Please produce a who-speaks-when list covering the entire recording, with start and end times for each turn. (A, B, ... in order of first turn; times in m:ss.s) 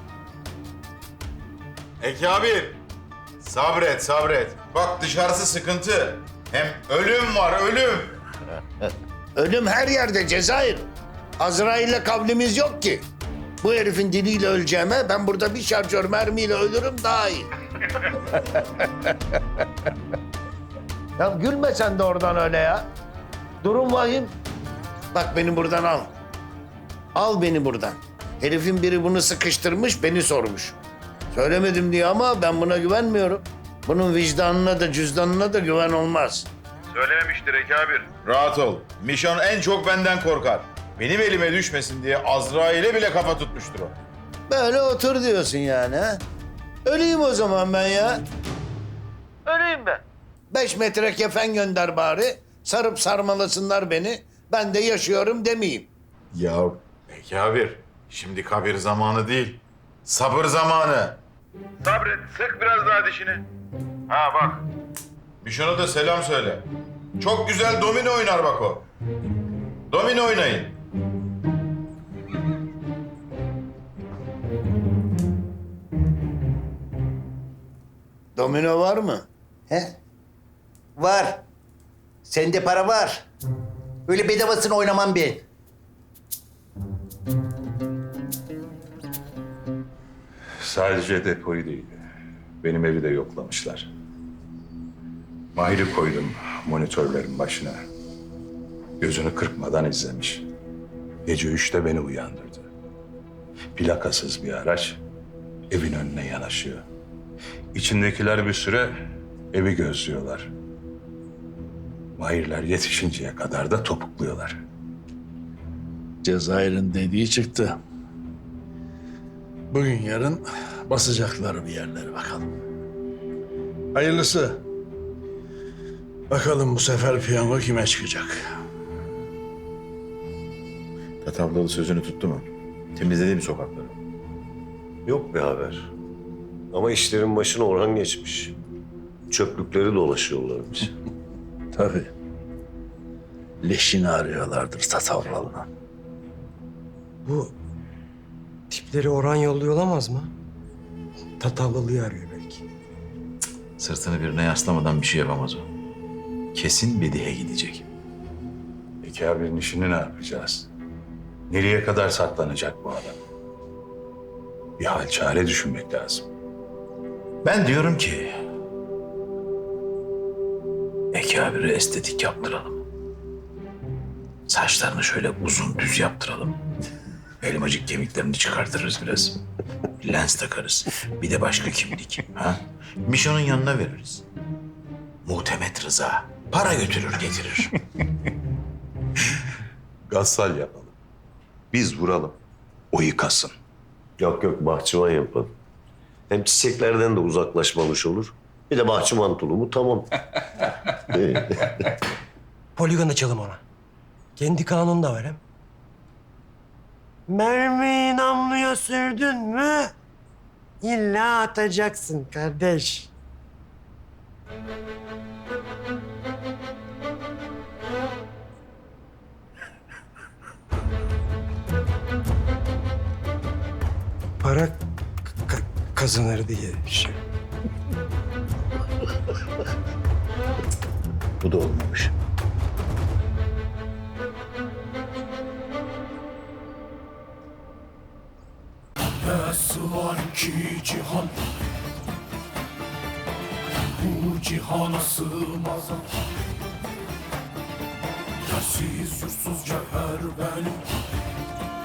0:02.0-0:02.8 A
0:03.4-0:08.2 A
0:09.4-0:10.9 B
0:11.4-0:13.1 B
0:13.6-0:17.5 B
0:18.3-0:18.9 B
0:21.2-0:22.9 B
0:23.6-0:24.3 B
0:25.1-0:26.1 B
0:27.1-0:30.8 B
0:31.3-0:36.5 B
0:36.9-0:43.9 A
0:44.5-0:46.2 B
0:46.8-0:48.2 B
0:49.4-0:55.9 B
0:56.3-1:01.2 A
1:01.8-1:03.4 A
1:04.1-1:04.6 A
1:05.4-1:06.7 A
1:07.2-1:08.8 A
1:09.9-1:10.7 A
1:18.4-1:19.2 B
1:19.7-1:20.0 C
1:21.0-1:21.4 C
1:22.2-1:23.2 C
1:24.0-1:25.4 C
1:30.6-1:32.0 D
1:32.6-1:33.9 D
1:35.5-1:37.8 D
1:39.0-1:40.5 D
1:41.2-1:42.7 D
1:43.7-1:45.0 D
1:45.7-1:46.8 D
1:47.7-1:50.5 D
1:52.2-1:54.6 D
1:56.2-1:57.8 E
1:59.7-2:02.5 E
2:03.9-2:04.6 E
2:06.3-2:08.4 E
2:11.2-2:14.0 F
2:15.0-2:15.9 G
2:16.7-2:18.6 G
2:19.3-2:20.8 G
2:21.7-2:22.1 E
2:23.6-2:25.7 E
2:27.2-2:27.5 H
2:28.7-2:30.3 H
2:31.4-2:32.6 H
2:33.8-2:35.7 F
2:36.5-2:37.8 F
2:39.0-2:40.7 D
2:41.5-2:43.2 D
2:44.8-2:46.3 D
2:47.4-2:48.3 F
2:51.1-2:52.8 F
2:54.5-2:56.6 F
2:57.4-2:59.4 F
3:00.0-3:04.2 F
3:05.2-3:07.7 F
3:10.1-3:10.9 D
3:11.7-3:12.4 G
3:12.9-3:13.6 D
3:14.2-3:15.5 G
3:16.3-3:20.1 G
3:21.1-3:21.9 G
3:22.8-3:23.6 H
3:24.4-3:25.4 H
3:27.3-3:29.9 H
3:30.8-3:33.1 H
3:44.4-3:44.8 H
3:45.4-3:47.2 H
3:51.4-3:52.1 F
3:59.3-4:01.3 I
4:04.0-4:06.0 I
4:08.5-4:10.8 I